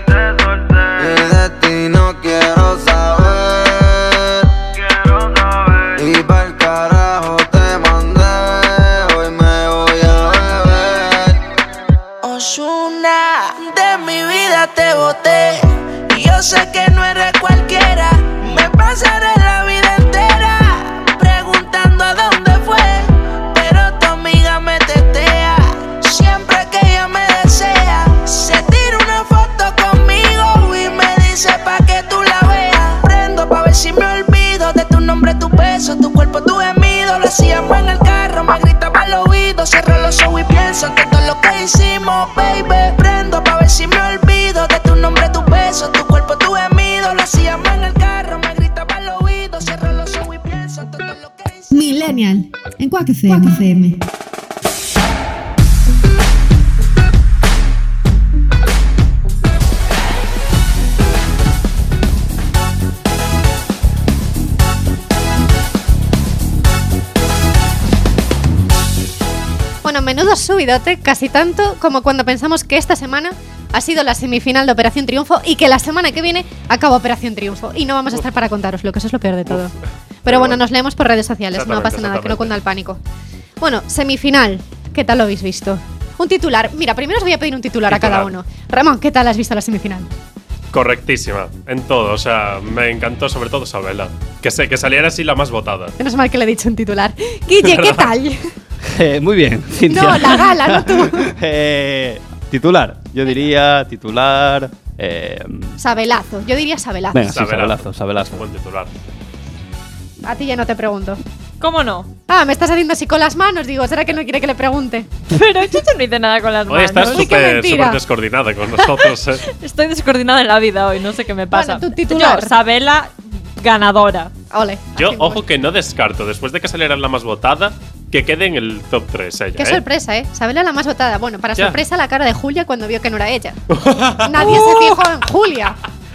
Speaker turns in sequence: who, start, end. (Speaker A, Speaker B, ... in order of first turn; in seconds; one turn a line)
Speaker A: 1.0-4.5
Speaker A: 6.0-11.4
Speaker B: 12.2-51.8
Speaker C: 51.7-53.9
Speaker C: 69.8-79.7
Speaker C: 80.2-83.0
Speaker D: 80.3-80.6
Speaker D: 81.5-82.5
Speaker C: 83.6-90.1
Speaker D: 87.9-88.3
Speaker D: 90.7-96.0
Speaker C: 96.0-98.5
Speaker D: 97.6-98.1
Speaker E: 98.8-105.8
Speaker C: 99.9-101.3
Speaker C: 105.8-107.3
Speaker E: 107.1-108.5
Speaker D: 107.3-108.9
Speaker C: 110.2-111.2
Speaker F: 111.6-112.1
Speaker C: 112.3-115.1
Speaker F: 115.3-117.3
Speaker D: 116.7-119.4
Speaker C: 117.0-118.0
Speaker F: 118.8-124.3
Speaker C: 121.5-122.5
Speaker C: 124.5-125.4
Speaker D: 125.0-129.8
Speaker C: 129.6-133.6
Speaker D: 133.7-135.0
Speaker C: 134.2-135.8